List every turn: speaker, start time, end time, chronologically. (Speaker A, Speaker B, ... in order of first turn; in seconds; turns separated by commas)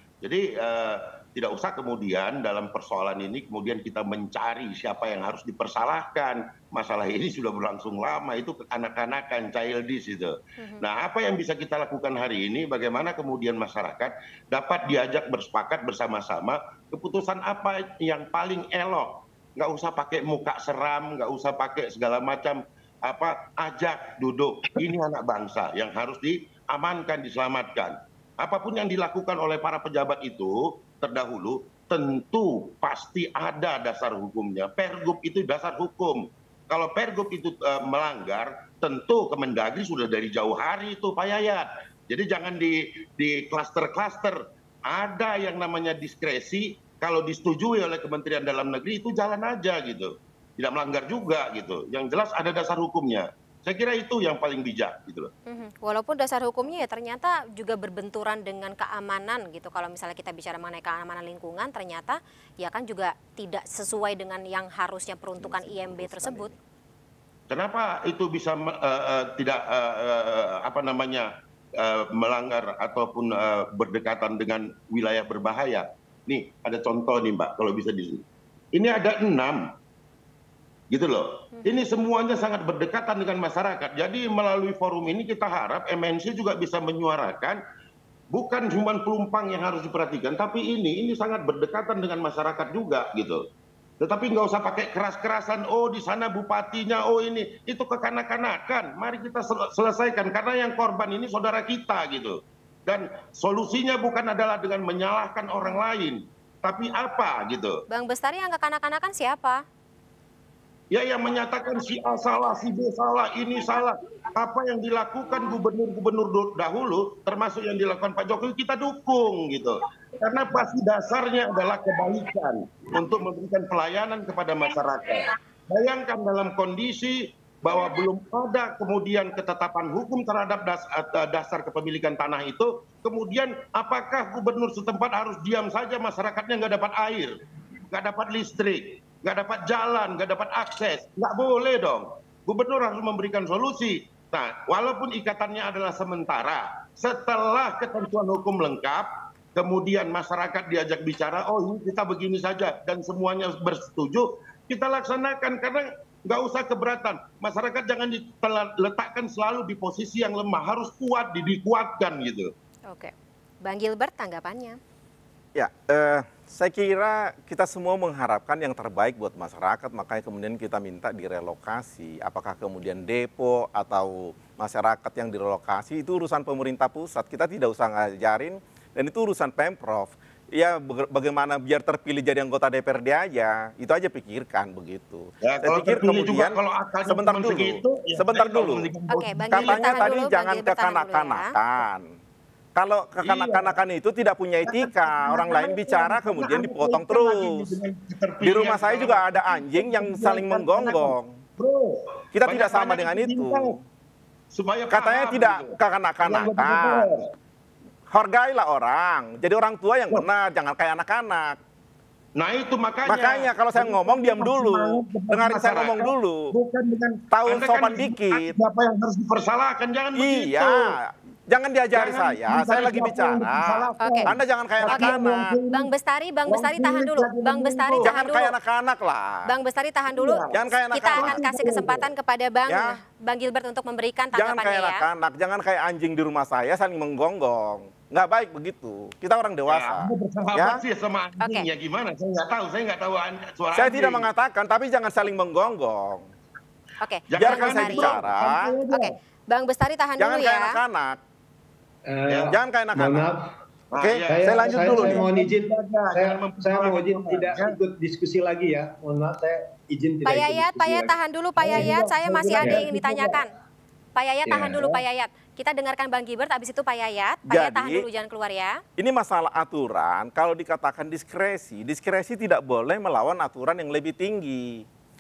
Speaker A: 0.2-55.3, Speaker B: 10.6-10.8, Speaker B: 55.5-66.5, Speaker C: 65.4-66.6, Speaker A: 67.5-79.7, Speaker A: 80.9-87.6, Speaker A: 88.3-93.4, Speaker A: 94.0-107.8, Speaker B: 107.9-109.6, Speaker A: 110.9-137.3, Speaker A: 137.9-162.5, Speaker B: 162.9-164.8, Speaker C: 165.6-186.6, Speaker A: 185.4-190.2, Speaker C: 187.1-188.9, Speaker B: 189.1-191.5, Speaker C: 189.5-192.1, Speaker C: 192.8-197.7, Speaker A: 193.2-193.8, Speaker A: 194.7-203.7, Speaker C: 198.4-201.4, Speaker C: 202.3-203.8, Speaker A: 204.5-207.2, Speaker C: 204.9-207.1, Speaker C: 208.1-211.6, Speaker A: 212.4-221.0, Speaker C: 213.1-216.5, Speaker C: 217.3-218.6, Speaker C: 220.2-225.5, Speaker A: 221.9-225.9, Speaker B: 224.0-224.3, Speaker B: 224.9-225.2, Speaker B: 225.7-228.5, Speaker A: 226.5-228.1, Speaker C: 228.0-229.5, Speaker B: 229.5-235.1, Speaker A: 230.1-232.1, Speaker C: 230.5-231.4, Speaker C: 232.7-233.0, Speaker C: 234.3-240.8, Speaker A: 239.7-244.3, Speaker B: 241.4-241.7, Speaker C: 243.7-246.3, Speaker B: 247.0-248.2, Speaker A: 247.3-249.2, Speaker C: 247.4-248.7, Speaker B: 248.9-250.8, Speaker C: 250.2-251.2, Speaker D: 252.1-253.5, Speaker A: 252.3-252.6, Speaker C: 252.5-253.3, Speaker A: 253.9-257.8, Speaker C: 254.0-255.2, Speaker D: 254.3-262.0, Speaker B: 260.3-263.5, Speaker A: 261.6-263.4, Speaker D: 262.6-262.9, Speaker B: 264.2-268.8, Speaker D: 264.5-264.9, Speaker C: 267.5-268.1, Speaker C: 269.0-274.8